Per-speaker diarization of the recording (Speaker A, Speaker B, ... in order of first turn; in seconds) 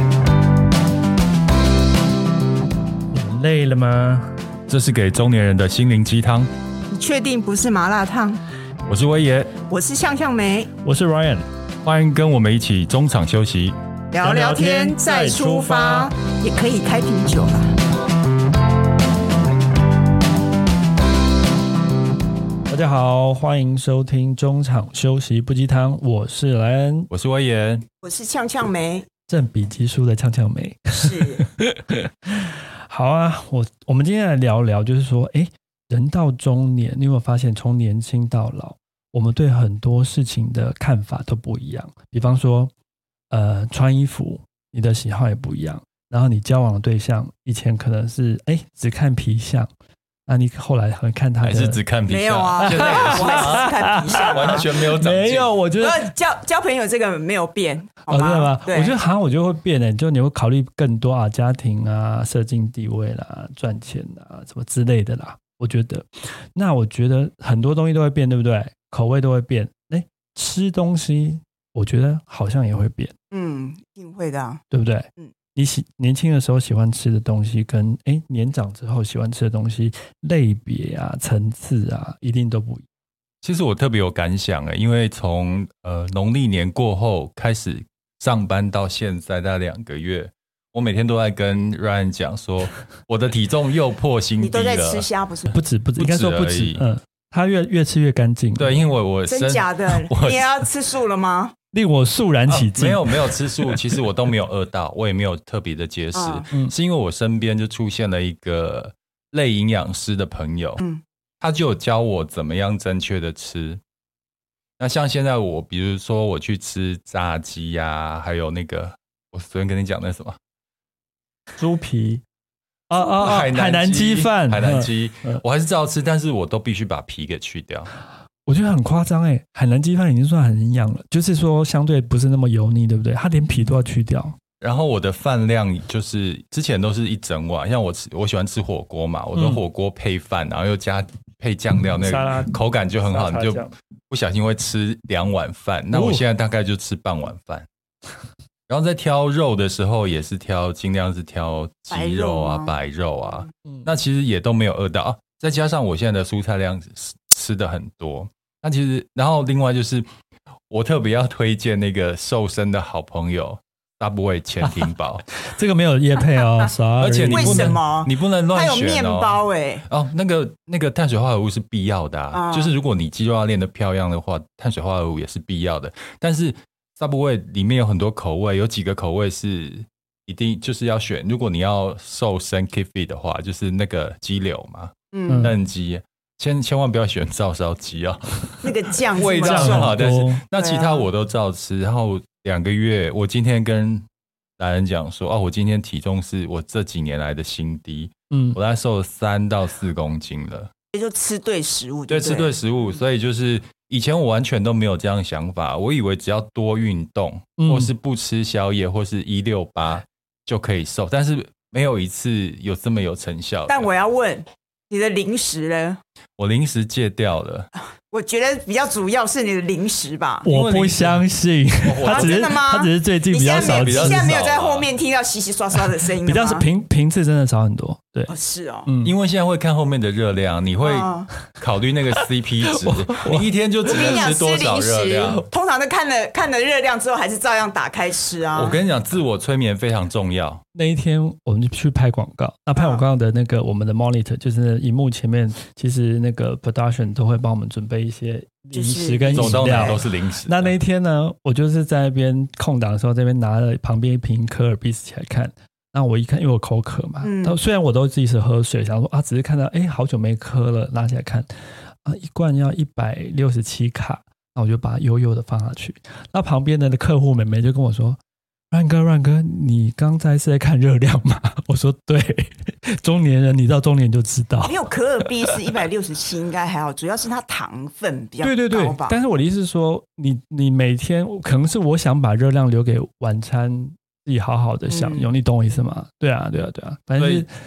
Speaker A: 3.1-4.3, 10.8-11.5, 14.2-16.1, 22.7-27.1, 29.3-42.7, 43.3-49.7, 50.3-51.8, 52.6-56.1, 58.1-73.1, 74.7-82.8, 95.5-98.8, 101.7-103.8, 121.6-122.2, 122.9-125.4, 128.5-134.4, 139.3-139.6, 142.0-143.7, 145.9-146.2, 165.3-167.8, 185.3-185.5, 189.3-190.4, 198.3-198.6, 207.6-207.9, 220.4-224.4, 226.2-228.3, 228.9-229.1, 232.2-234.1, 240.7-261.5, 262.0-268.2, 268.7-275.6, 278.4-287.5
Speaker B: 4.7-6.5, 8.9-9.6, 11.8-13.8, 27.1-27.9, 51.4-55.5, 83.4-95.1, 96.0-96.8, 98.6-100.6, 102.5-110.8, 111.4-113.8, 114.8-120.4, 123.0-127.9, 134.6-147.7, 148.7-160.1, 160.7-165.2, 167.0-194.1, 194.6-200.7, 202.1-213.9, 216.4-217.7, 220.5-221.2, 221.8-222.5, 223.5-224.9, 229.0-235.4, 238.5-240.6, 249.3-250.8, 287.2-287.4
Speaker C: 6.9-8.4, 9.7-10.7, 14.1-17.8, 28.0-29.1, 30.9-31.4, 52.1-54.7, 55.8-59.0, 73.3-74.6, 94.4-95.5, 99.3-101.5, 106.1-106.5, 151.9-152.7, 167.2-169.8, 172.3-172.7, 185.1-185.5, 188.6-190.0, 190.6-191.1, 200.9-202.5, 213.7-216.0, 218.1-220.5, 222.0-226.7, 228.3-228.9, 230.8-231.3, 233.8-238.8, 242.8-243.0, 248.7-250.0, 257.2-257.6, 274.6-279.2, 284.9-285.3